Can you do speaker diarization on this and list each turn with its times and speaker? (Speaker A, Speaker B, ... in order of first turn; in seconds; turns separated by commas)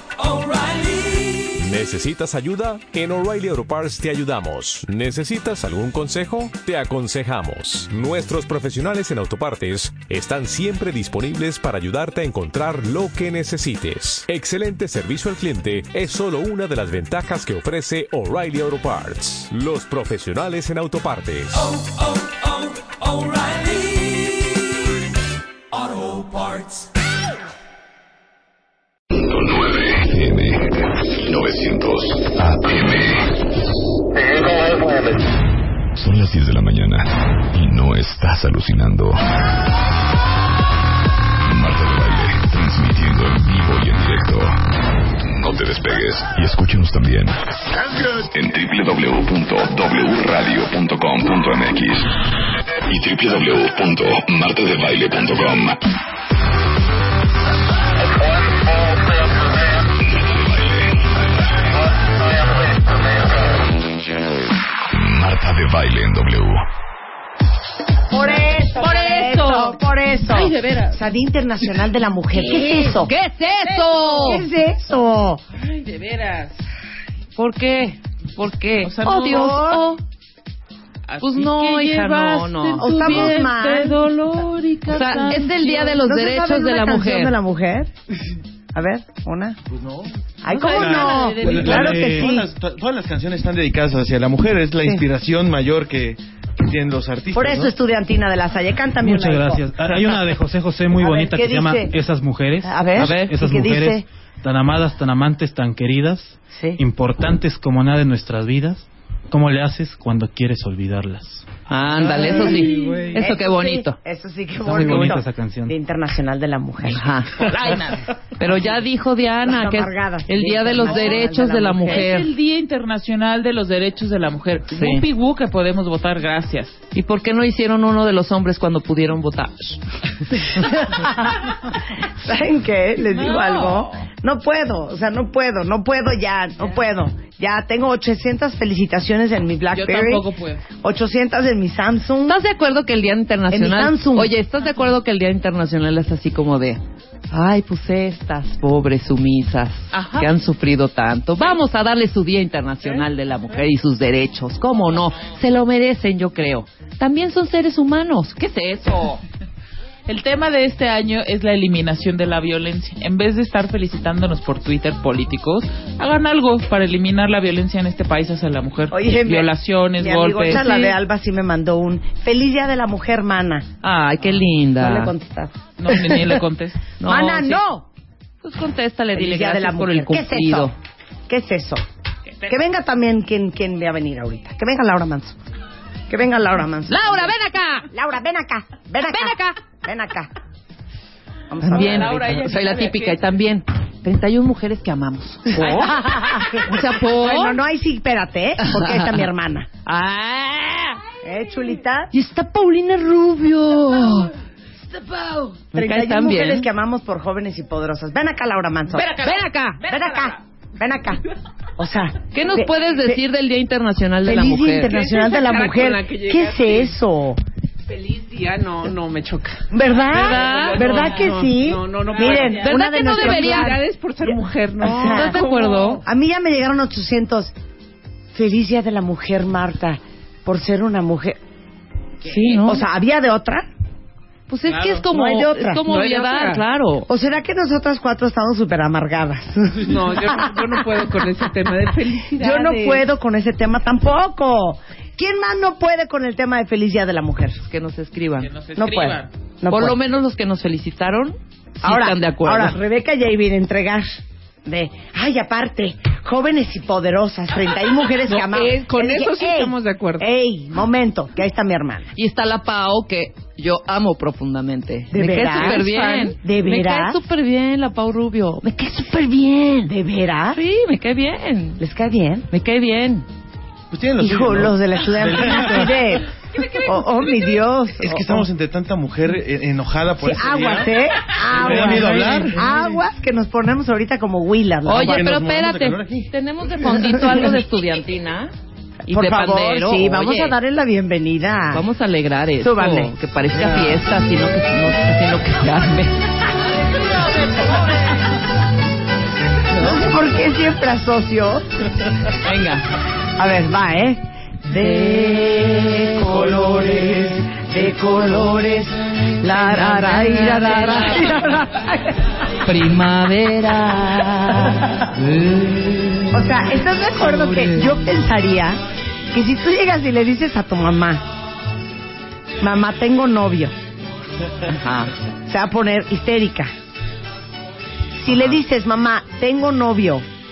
Speaker A: 0.2-21.7, Speaker A: 25.9-26.6, Speaker B: 29.1-33.3, Speaker B: 34.5-35.0, Speaker B: 36.0-39.3, Speaker B: 41.5-44.6, Speaker B: 45.2-52.2, Speaker B: 52.9-55.8, Speaker B: 60.0-61.8, Speaker B: 64.9-66.7, Speaker C: 68.1-73.1, Speaker D: 68.8-71.0, Speaker D: 72.4-73.0, Speaker E: 72.5-74.5, Speaker D: 73.6-74.4, Speaker C: 74.2-75.4, Speaker D: 75.6-76.6, Speaker E: 77.4-80.0, Speaker D: 78.8-79.5, Speaker C: 79.0-79.9, Speaker D: 81.1-85.9, Speaker E: 81.2-83.4, Speaker C: 82.8-84.0, Speaker E: 84.9-87.3, Speaker C: 85.4-87.9, Speaker C: 88.7-89.6, Speaker F: 89.7-90.1, Speaker C: 90.4-92.5, Speaker D: 90.5-91.7, Speaker G: 90.7-92.3, Speaker F: 91.3-97.8, Speaker C: 97.3-99.8, Speaker G: 99.0-111.5, Speaker C: 101.0-101.9, Speaker C: 102.6-104.0, Speaker E: 103.0-103.3, Speaker C: 106.5-106.8, Speaker E: 111.7-114.0, Speaker C: 113.1-117.0, Speaker G: 114.6-115.8, Speaker E: 116.9-117.5, Speaker D: 117.4-118.1, Speaker E: 118.4-122.3, Speaker C: 119.5-122.1, Speaker D: 120.8-121.3, Speaker D: 121.8-126.8, Speaker E: 124.7-125.0, Speaker E: 126.9-129.8, Speaker C: 130.6-131.1, Speaker C: 132.0-140.3, Speaker E: 133.2-133.9, Speaker D: 139.7-140.6, Speaker C: 140.8-142.4, Speaker E: 142.3-146.8, Speaker C: 143.5-144.3, Speaker E: 147.3-159.2, Speaker D: 149.9-150.3, Speaker D: 160.1-171.0, Speaker C: 168.9-173.7, Speaker E: 173.8-175.1, Speaker C: 174.8-176.3, Speaker D: 175.8-176.8, Speaker E: 177.0-177.6, Speaker C: 177.1-177.9, Speaker E: 178.4-180.7, Speaker C: 179.2-180.7, Speaker C: 181.3-181.8, Speaker C: 182.5-185.4, Speaker C: 186.1-187.3, Speaker E: 186.9-187.9, Speaker C: 187.9-190.3, Speaker E: 189.1-189.6, Speaker C: 191.5-192.5, Speaker E: 191.6-197.6, Speaker D: 191.8-193.2, Speaker C: 195.5-199.7, Speaker E: 198.6-199.2, Speaker E: 199.9-201.0, Speaker C: 201.2-202.1, Speaker E: 202.1-204.3, Speaker C: 205.7-209.1, Speaker E: 205.7-206.7, Speaker E: 208.9-209.8, Speaker C: 209.8-211.2, Speaker C: 211.8-213.2, Speaker E: 212.3-214.9, Speaker C: 214.2-217.4, Speaker H: 214.9-216.9, Speaker H: 217.9-219.6, Speaker C: 219.7-227.5, Speaker E: 220.1-220.9, Speaker H: 220.2-225.9, Speaker D: 222.1-223.7, Speaker E: 222.7-223.8, Speaker E: 224.8-226.0, Speaker C: 228.3-231.4, Speaker E: 232.2-232.8, Speaker C: 232.5-233.7, Speaker E: 234.5-237.1, Speaker C: 235.1-235.8, Speaker H: 235.9-236.6, Speaker C: 237.1-241.1, Speaker H: 239.9-243.0, Speaker C: 242.3-247.6, Speaker E: 247.6-248.5, Speaker D: 248.4-249.3, Speaker C: 248.8-250.0, Speaker E: 249.7-252.8, Speaker C: 251.8-254.1, Speaker C: 254.7-262.1, Speaker H: 258.2-260.3, Speaker E: 262.1-269.9, Speaker C: 265.1-267.2, Speaker H: 265.7-266.3, Speaker C: 269.7-270.6, Speaker E: 270.5-271.8, Speaker C: 271.8-272.5, Speaker E: 272.5-273.3, Speaker F: 273.9-275.7, Speaker C: 274.2-278.5, Speaker G: 275.2-276.0, Speaker F: 278.0-281.0, Speaker C: 280.2-285.3, Speaker F: 281.5-282.6, Speaker G: 281.5-282.9, Speaker E: 284.9-288.5, Speaker F: 284.9-286.3, Speaker E: 289.1-290.6, Speaker C: 289.1-291.9, Speaker E: 291.7-296.2, Speaker C: 292.6-293.9, Speaker C: 299.7-301.6, Speaker E: 302.4-302.9, Speaker C: 303.4-312.2, Speaker E: 304.9-306.0, Speaker E: 309.4-311.4, Speaker E: 312.6-316.5, Speaker C: 316.3-318.8, Speaker E: 317.2-317.9, Speaker C: 319.3-321.2, Speaker C: 322.6-323.7, Speaker E: 324.7-325.1, Speaker C: 325.4-326.7, Speaker C: 328.1-330.2